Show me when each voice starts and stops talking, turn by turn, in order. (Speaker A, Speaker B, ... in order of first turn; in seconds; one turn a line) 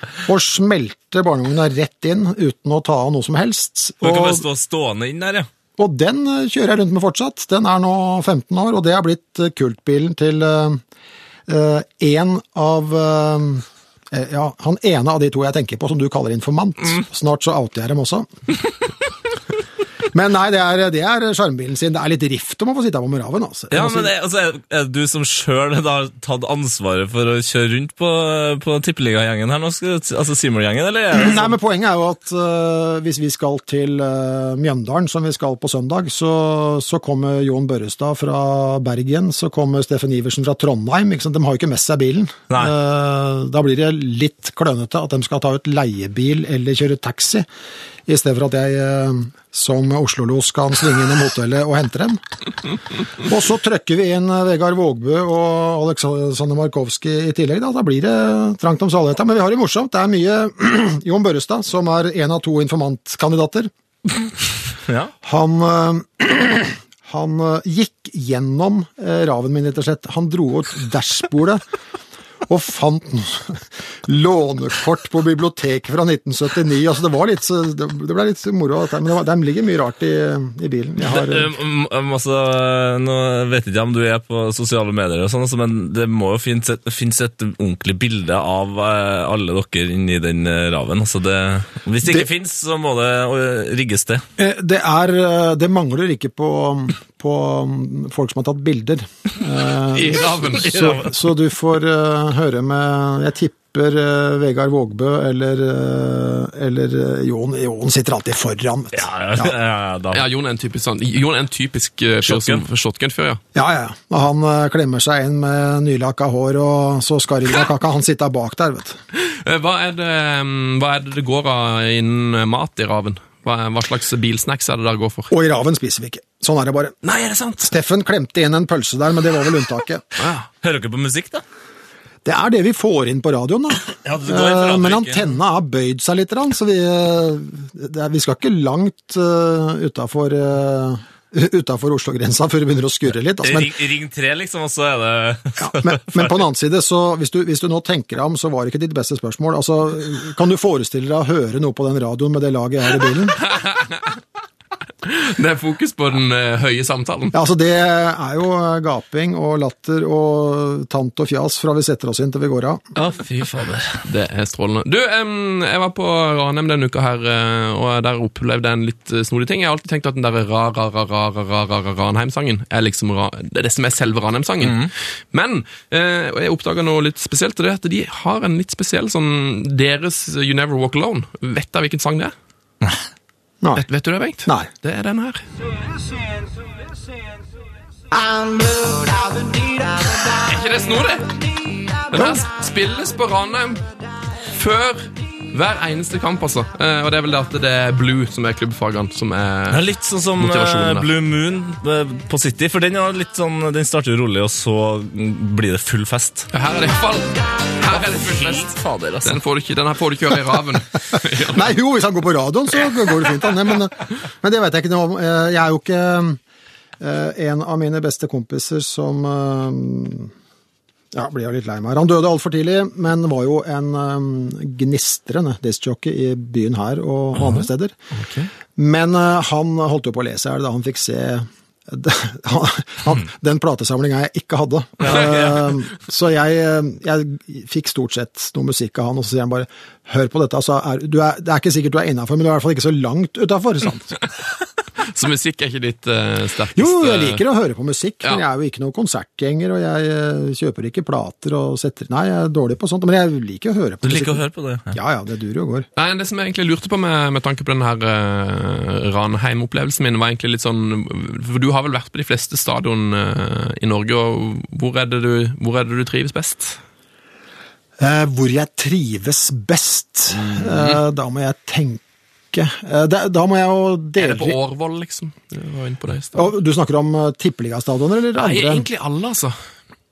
Speaker A: 0.2-4.5
Speaker B: 4.0-5.5
Speaker A: 5.8-10.8
Speaker A: 11.5-18.3
Speaker A: 20.1-24.1
Speaker B: 23.7-31.6
Speaker A: 31.1-47.5
Speaker A: 48.1-52.2
Speaker A: 53.2-63.7
Speaker B: 64.9-65.1
Speaker A: 65.2-71.6
Speaker A: 72.5-81.5
Speaker B: 81.0-94.2
Speaker A: 94.4-109.5
Speaker C: 99.9-101.0
Speaker B: 108.9-110.3
Speaker C: 110.1-113.4
Speaker B: 112.2-112.6
Speaker A: 113.5-119.0
Speaker C: 119.2-125.3
Speaker A: 125.3-127.0
Speaker C: 127.0-127.7
Speaker A: 127.7-130.0
Speaker B: 130.6-131.4
Speaker A: 132.2-143.7
Speaker B: 134.0-135.3
Speaker B: 143.4-146.3
Speaker A: 145.6-153.4
Speaker C: 153.6-154.1
Speaker C: 155.0-157.3
Speaker A: 157.3-162.8
Speaker B: 163.0-164.0
Speaker C: 164.1-182.3
Speaker B: 174.6-174.9
Speaker C: 183.8-185.5
Speaker C: 190.3-191.4
Speaker C: 192.0-193.8
Speaker A: 192.1-192.4
Speaker C: 194.5-199.8
Speaker B: 199.7-206.5
Speaker C: 200.4-201.1
Speaker C: 206.5-211.6
Speaker B: 208.2-209.4
Speaker A: 211.5-216.4
Speaker A: 217.0-220.3
Speaker A: 221.1-228.0
Speaker A: 228.8-244.2
Speaker B: 235.0-235.8
Speaker C: 245.0-247.4
Speaker A: 246.8-255.9
Speaker B: 254.0-255.0
Speaker C: 256.0-266.8
Speaker A: 268.0-274.6
Speaker C: 270.3-271.0
Speaker C: 274.2-276.5
Speaker A: 276.3-278.9
Speaker C: 278.4-279.6